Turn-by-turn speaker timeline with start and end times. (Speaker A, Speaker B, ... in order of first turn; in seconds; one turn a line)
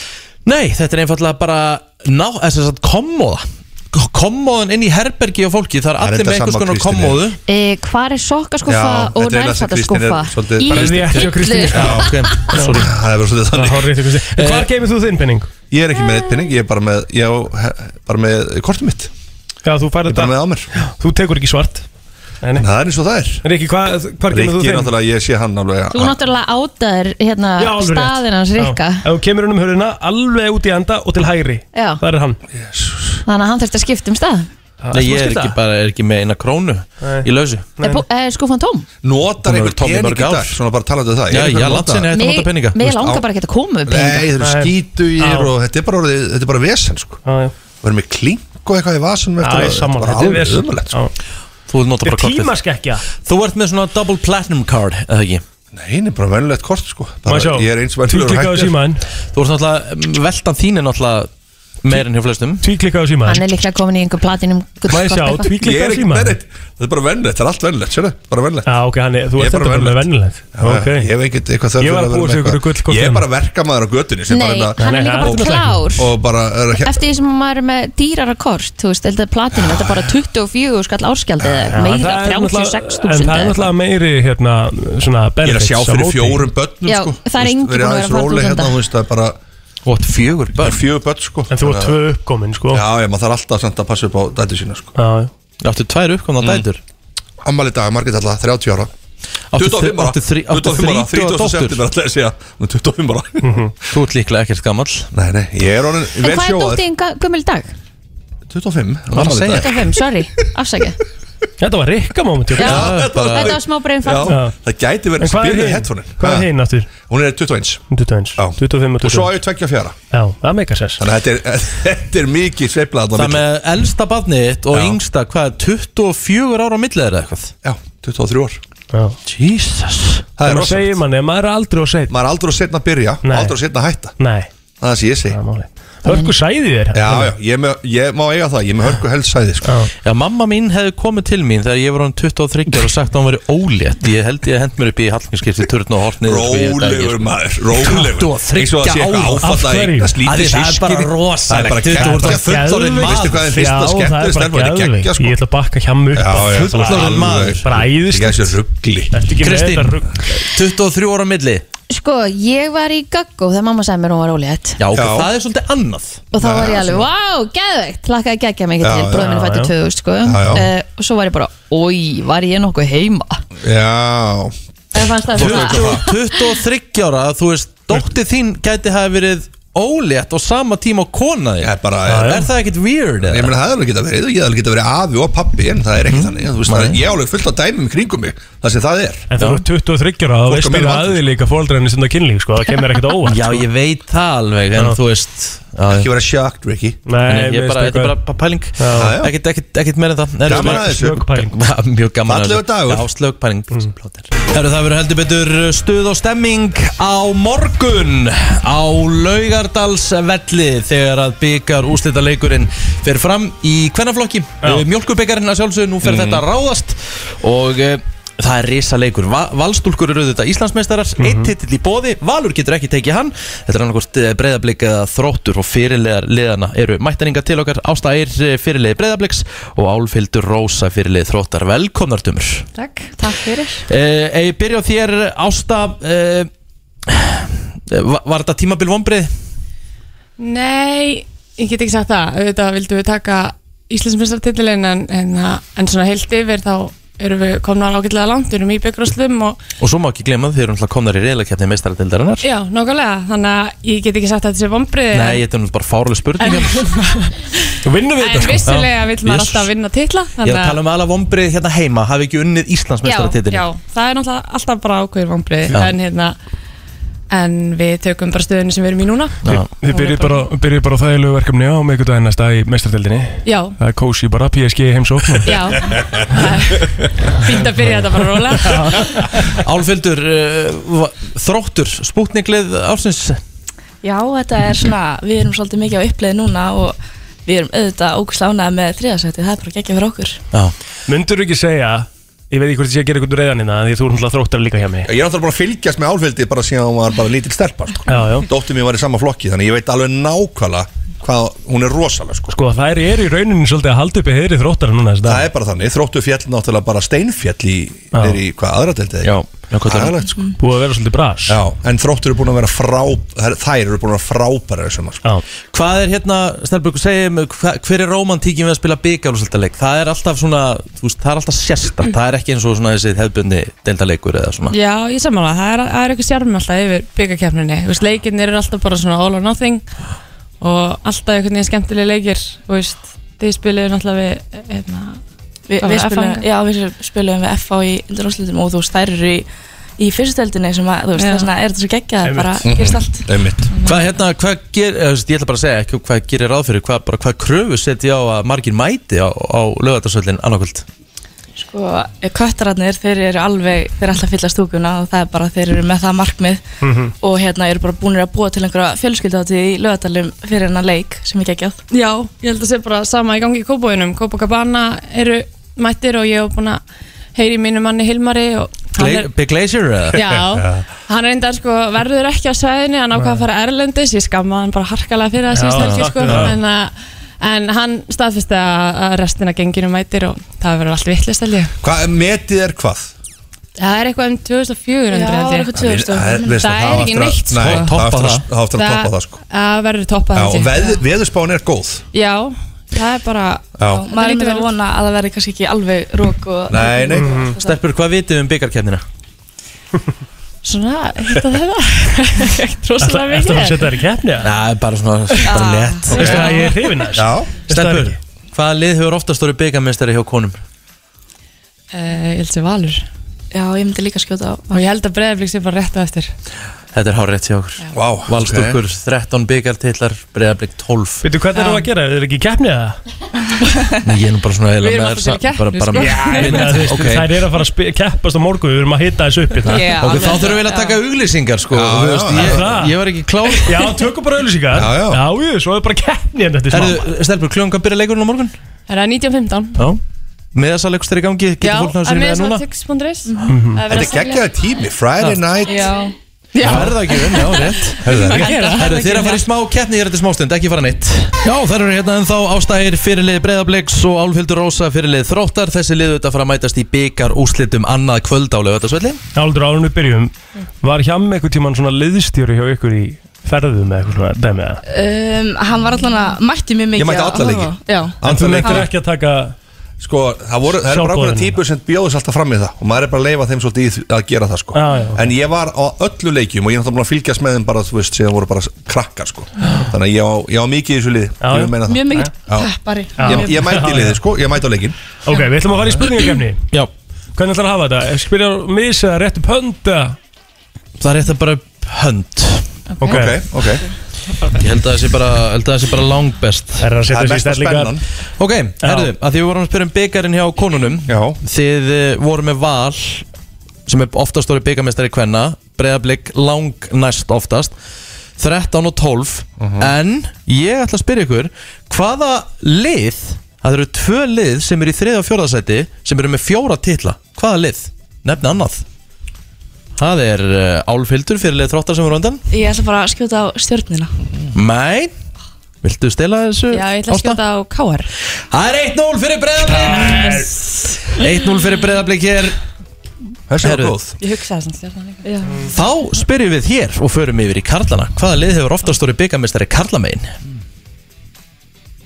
Speaker A: 0.4-7.4
Speaker B: 6.0-7.2
Speaker C: 7.5-12.4
Speaker B: 8.7-12.1
Speaker D: 10.7-12.9
Speaker A: 10.7-12.9
Speaker B: 12.8-13.9
Speaker D: 13.5-15.5
Speaker A: 14.3-14.7
Speaker B: 15.7-19.1
Speaker D: 19.6-21.9
Speaker B: 20.1-20.7
Speaker B: 22.6-23.4
Speaker D: 23.4-24.9
Speaker B: 24.3-26.2
Speaker C: 25.9-29.0
Speaker D: 27.6-32.4
Speaker C: 31.7-32.0
Speaker B: 32.6-33.2
Speaker C: 33.2-34.5
Speaker D: 34.8-35.5
Speaker A: 34.9-37.7
Speaker D: 37.0-38.0
Speaker C: 37.8-38.9
Speaker B: 39.0-42.1
Speaker A: 39.4-40.6
Speaker A: 41.3-42.9
Speaker C: 42.1-44.3
Speaker B: 42.9-43.2
Speaker B: 43.9-47.2
Speaker D: 44.4-45.5
Speaker D: 47.2-47.5
Speaker B: 47.8-51.0
Speaker D: 49.4-51.1
Speaker A: 51.7-52.5
Speaker D: 52.0-53.0
Speaker A: 53.2-55.4
Speaker B: 55.7-58.8
Speaker D: 57.2-59.0
Speaker A: 59.3-61.3
Speaker A: 61.8-62.6
Speaker D: 62.6-63.4
Speaker C: 63.3-65.5
Speaker D: 64.9-66.4
Speaker B: 65.5-68.7
Speaker D: 68.7-71.1
Speaker B: 69.3-77.0
Speaker D: 71.8-73.2
Speaker C: 74.3-76.1
Speaker D: 74.8-76.0
Speaker C: 76.8-83.7
Speaker B: 79.6-80.1
Speaker B: 81.4-81.7
Speaker D: 81.7-86.5
Speaker B: 85.4-89.4
Speaker C: 86.8-88.7
Speaker A: 89.8-90.8
Speaker B: 90.6-92.0
Speaker D: 91.5-92.8
Speaker B: 92.7-94.9
Speaker D: 95.0-95.3
Speaker A: 95.6-96.8
Speaker B: 97.4-98.9
Speaker A: 99.5-101.8
Speaker B: 99.5-103.6
Speaker D: 103.4-103.7
Speaker A: 103.9-105.1
Speaker B: 105.1-106.8
Speaker C: 106.2-107.7
Speaker B: 108.5-109.8
Speaker A: 109.1-109.7
Speaker C: 109.5-111.0
Speaker D: 111.6-112.9
Speaker C: 112.6-114.3
Speaker B: 112.6-117.8
Speaker A: 112.6-113.6
Speaker D: 114.3-114.5
Speaker D: 115.2-116.9
Speaker D: 117.9-119.4
Speaker B: 118.4-120.0
Speaker D: 120.1-121.0
Speaker B: 121.0-123.4
Speaker A: 123.1-127.5
Speaker B: 124.7-125.0
Speaker B: 127.6-128.6
Speaker D: 128.9-129.2
Speaker A: 129.3-130.2
Speaker B: 130.4-131.0
Speaker D: 130.4-132.1
Speaker B: 132.1-134.1
Speaker D: 133.2-133.6
Speaker D: 134.2-134.5
Speaker B: 134.8-135.4
Speaker D: 135.3-137.3
Speaker C: 136.1-136.3
Speaker B: 136.9-139.8
Speaker D: 139.6-139.9
Speaker A: 140.0-149.5
Speaker B: 146.2-155.4
Speaker D: 149.4-150.1
Speaker A: 150.2-153.5
Speaker D: 151.9-158.6
Speaker B: 156.1-159.2
Speaker A: 156.4-157.7
Speaker D: 159.1-160.1
Speaker A: 159.4-161.6
Speaker C: 161.9-164.8
Speaker A: 164.8-166.2
Speaker B: 164.9-165.3
Speaker C: 166.3-173.4
Speaker B: 166.3-167.0
Speaker B: 168.8-169.3
Speaker D: 169.1-169.7
Speaker B: 170.2-170.7
Speaker B: 173.6-174.5
Speaker C: 174.9-176.1
Speaker B: 175.3-176.0
Speaker A: 175.3-183.5
Speaker B: 181.6-182.4
Speaker D: 182.1-182.5
Speaker B: 183.2-189.3
Speaker A: 186.1-187.0
Speaker D: 189.3-193.7
Speaker A: 189.3-189.6
Speaker B: 190.4-191.2
Speaker A: 193.2-196.1
Speaker B: 195.9-197.0
Speaker D: 197.1-198.2
Speaker A: 197.3-232.7
Speaker D: 198.8-199.2
Speaker B: 198.9-199.3
Speaker B: 200.4-201.2
Speaker D: 200.5-201.6
Speaker B: 202.2-203.1
Speaker B: 216.0-216.4
Speaker D: 221.2-221.5
Speaker E: 232.8-233.5
Speaker A: 233.9-236.5
Speaker A: 237.1-239.3
Speaker E: 240.4-249.6
Speaker A: 249.8-252.5
Speaker E: 252.4-255.4
Speaker A: 255.1-256.8
Speaker E: 256.4-257.5
Speaker D: 257.8-258.9
Speaker E: 258.2-260.8
Speaker A: 258.7-259.7
Speaker A: 260.4-263.7
Speaker E: 263.0-266.4
Speaker E: 267.3-270.5
Speaker A: 269.4-269.7
Speaker D: 269.7-275.5
Speaker E: 273.4-273.8
Speaker E: 275.4-279.0
Speaker D: 278.6-279.2
Speaker A: 279.6-283.4
Speaker F: 284.0-290.4
Speaker D: 291.1-295.1
Speaker B: 295.0-302.5
Speaker D: 298.1-298.5
Speaker D: 302.5-305.5
Speaker B: 305.2-310.5
Speaker D: 308.1-308.4
Speaker A: 309.2-310.2
Speaker D: 310.6-311.6
Speaker B: 311.5-315.2
Speaker A: 315.7-324.8
Speaker E: 324.7-329.9
Speaker E: 330.6-335.2
Speaker F: 335.7-339.5
Speaker E: 335.8-336.4
Speaker F: 340.0-344.0
Speaker E: 341.2-341.5
Speaker D: 342.2-342.6
Speaker B: 342.6-343.7
Speaker A: 343.8-350.8
Speaker F: 351.6-356.6
Speaker D: 356.8-357.1
Speaker F: 357.2-361.9
Speaker E: 361.9-366.8
Speaker E: 367.3-369.3
Speaker A: 368.9-370.2
Speaker E: 370.1-381.7
Speaker B: 370.1-370.8
Speaker D: 373.1-373.4
Speaker D: 375.5-376.6
Speaker B: 381.8-383.1
Speaker E: 383.8-385.7
Speaker F: 385.1-386.9
Speaker B: 385.7-389.4
Speaker E: 386.6-387.9
Speaker A: 387.5-388.4
Speaker E: 388.7-390.9
Speaker B: 390.3-392.0
Speaker E: 392.1-394.7
Speaker B: 393.8-394.1
Speaker F: 393.9-397.8
Speaker B: 396.7-397.5
Speaker D: 397.2-397.5
Speaker A: 397.6-399.0
Speaker E: 400.6-403.9
Speaker D: 403.0-404.5
Speaker A: 404.4-406.6
Speaker F: 405.4-406.6
Speaker D: 406.2-408.2
Speaker B: 406.2-406.5
Speaker E: 406.2-406.6
Speaker B: 407.1-407.6
Speaker A: 407.7-410.6
Speaker E: 411.9-413.0
Speaker F: 413.5-414.8
Speaker E: 414.7-416.3
Speaker A: 416.9-421.2
Speaker B: 417.9-418.8
Speaker D: 421.2-423.0
Speaker E: 421.6-421.8
Speaker A: 424.0-427.3
Speaker E: 424.8-426.4
Speaker D: 425.9-430.0
Speaker F: 429.6-430.9
Speaker E: 429.7-430.0
Speaker A: 429.9-433.9
Speaker B: 431.7-432.6
Speaker D: 432.3-433.0
Speaker D: 433.5-437.0
Speaker B: 434.7-435.2
Speaker A: 436.7-438.5
Speaker E: 438.9-439.8
Speaker A: 439.8-440.0
Speaker A: 440.5-442.6
Speaker E: 441.6-444.4
Speaker F: 443.3-443.6
Speaker D: 443.5-443.8
Speaker B: 443.9-445.8
Speaker A: 445.2-445.4
Speaker F: 445.6-449.4
Speaker A: 446.6-459.2
Speaker B: 448.0-448.8
Speaker E: 448.4-448.8
Speaker D: 459.3-464.8
Speaker F: 464.9-468.9
Speaker B: 466.9-468.9
Speaker D: 468.2-469.5
Speaker B: 470.0-482.7
Speaker D: 470.8-471.6
Speaker D: 474.7-475.3
Speaker D: 481.4-482.3
Speaker F: 481.9-483.7
Speaker D: 483.2-484.2
Speaker B: 483.2-484.9
Speaker D: 485.2-486.7
Speaker D: 487.3-490.2
Speaker A: 491.0-492.7
Speaker B: 493.0-493.8
Speaker D: 493.0-493.4
Speaker A: 494.6-496.9
Speaker D: 496.8-497.9
Speaker B: 497.1-498.0
Speaker A: 498.4-503.2
Speaker D: 498.8-499.1
Speaker B: 501.1-501.4
Speaker A: 503.9-507.7
Speaker A: 508.4-518.8
Speaker B: 509.6-509.9
Speaker A: 520.0-522.4
Speaker F: 522.5-524.1
Speaker A: 524.5-525.1
Speaker A: 525.8-527.4
Speaker E: 526.7-528.1
Speaker A: 528.5-530.5
Speaker D: 529.9-530.4
Speaker A: 531.1-532.5
Speaker B: 533.5-534.1
Speaker A: 533.6-534.0
Speaker E: 534.2-535.3
Speaker F: 535.2-535.6
Speaker A: 535.7-540.3